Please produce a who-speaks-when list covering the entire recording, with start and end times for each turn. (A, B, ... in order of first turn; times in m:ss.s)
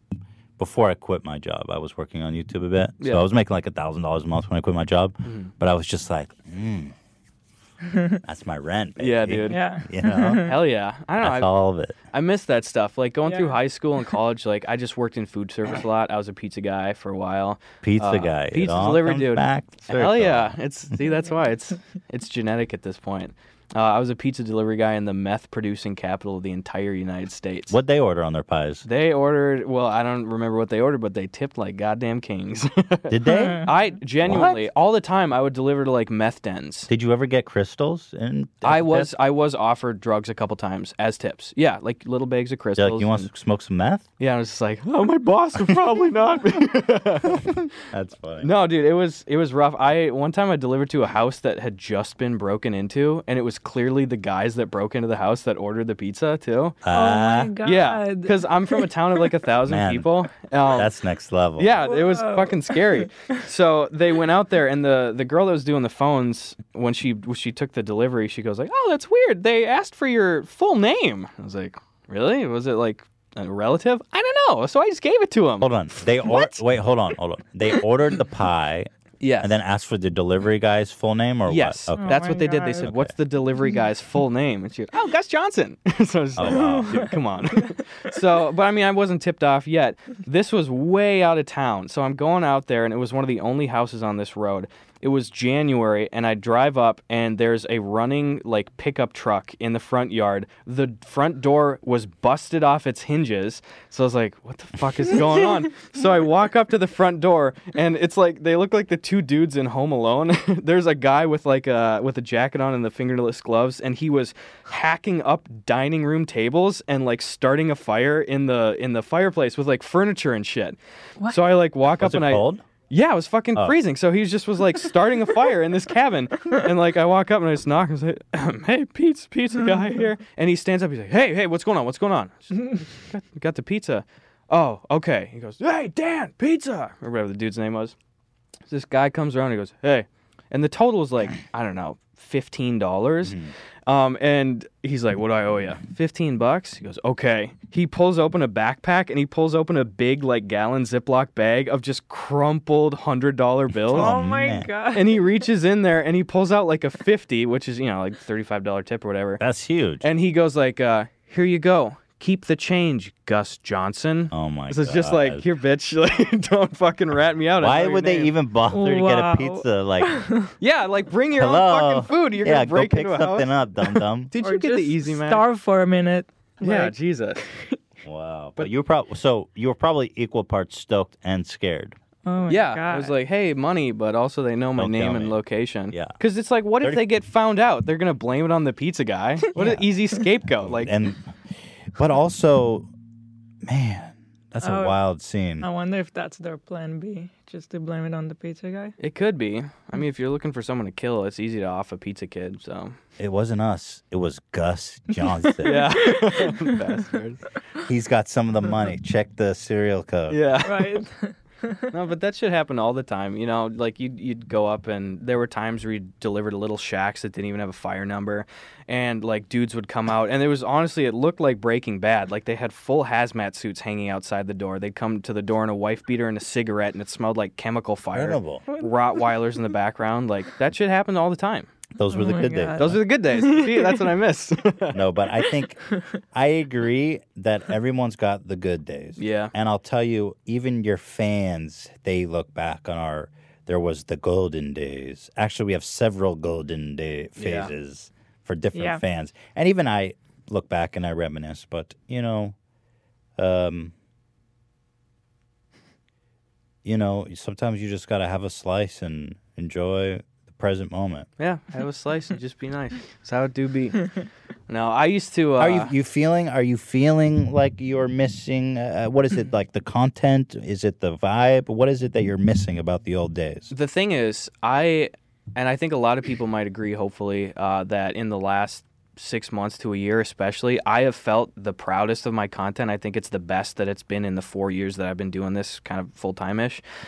0:00.6-0:06.9 A
0:05.2-0:05.5 B
0:07.8-0:08.2 C
0:08.2-0:10.4 A
0:09.0-0:09.7 B
0:09.5-0:10.6 C
0:10.4-0:11.5 B
0:11.2-0:12.0 A
0:12.1-0:27.8 B
0:13.2-0:13.6 C
0:17.8-0:20.6 A
0:27.7-0:28.8 A
0:28.8-0:36.9 B
0:33.1-0:33.7 A
0:33.2-0:33.7 C
0:34.2-0:34.6 A
0:36.9-0:39.1 A
0:38.6-0:43.3 B
0:42.8-0:44.0 A
0:44.2-0:47.4 B
0:47.3-0:48.5 A
0:48.4-0:56.8 B
0:56.8-0:57.5 A
0:56.9-0:58.9 C
0:57.6-1:00.9 B
0:59.7-1:00.1 A
1:00.7-1:01.8 A
1:01.6-1:15.7 B
1:01.9-1:03.4 C
1:15.6-1:18.9 A
1:16.2-1:16.5 B
1:19.2-1:19.5 B
1:19.4-1:22.2 A
1:21.4-2:17.9 B
1:22.0-1:22.9 C
1:22.8-1:23.1 A
1:26.4-1:27.0 A
1:26.6-1:27.1 C
2:02.0-2:02.6 A
2:18.7-2:34.1 B
2:23.2-2:23.5 A
2:33.9-2:34.7 A
2:33.9-2:35.3 C
2:34.9-2:39.4 B
2:39.4-2:40.0 A
2:40.0-2:48.3 B
2:44.3-2:45.4 A
2:47.6-2:50.2 A
2:48.7-2:50.5 C
2:50.6-2:55.4 B
2:51.4-2:54.3 A
2:54.4-2:56.9 C
2:56.6-2:57.8 B
2:58.0-3:02.0 A
3:02.2-3:03.1 C
3:02.5-3:10.9 B
3:04.8-3:05.4 A
3:05.9-3:06.2 A
3:09.5-3:09.8 A
3:10.6-3:11.2 A
3:12.0-3:12.9 A
3:13.6-3:15.7 A
3:14.6-3:15.0 C
3:15.6-3:19.0 C
3:19.0-3:23.0 B
3:23.2-3:25.7 A
3:25.6-3:26.7 C
3:25.6-3:27.4 B
3:27.9-3:30.4 A
3:30.3-3:31.0 B
3:30.6-3:31.9 C
3:31.9-3:51.7 B
3:48.1-3:48.6 A
3:48.7-3:49.3 C
3:51.9-3:53.0 A
3:52.1-3:54.1 C
3:52.8-3:55.0 B
3:54.9-3:55.8 A
3:56.3-4:12.5 A
3:59.2-3:59.5 B
4:07.4-4:07.7 B
4:08.7-4:09.0 C
4:13.4-4:13.9 A
4:16.8-4:21.3 A
4:21.4-4:24.0 B
4:24.7-4:25.9 B
4:25.6-4:33.7 A
4:33.7-4:46.8 B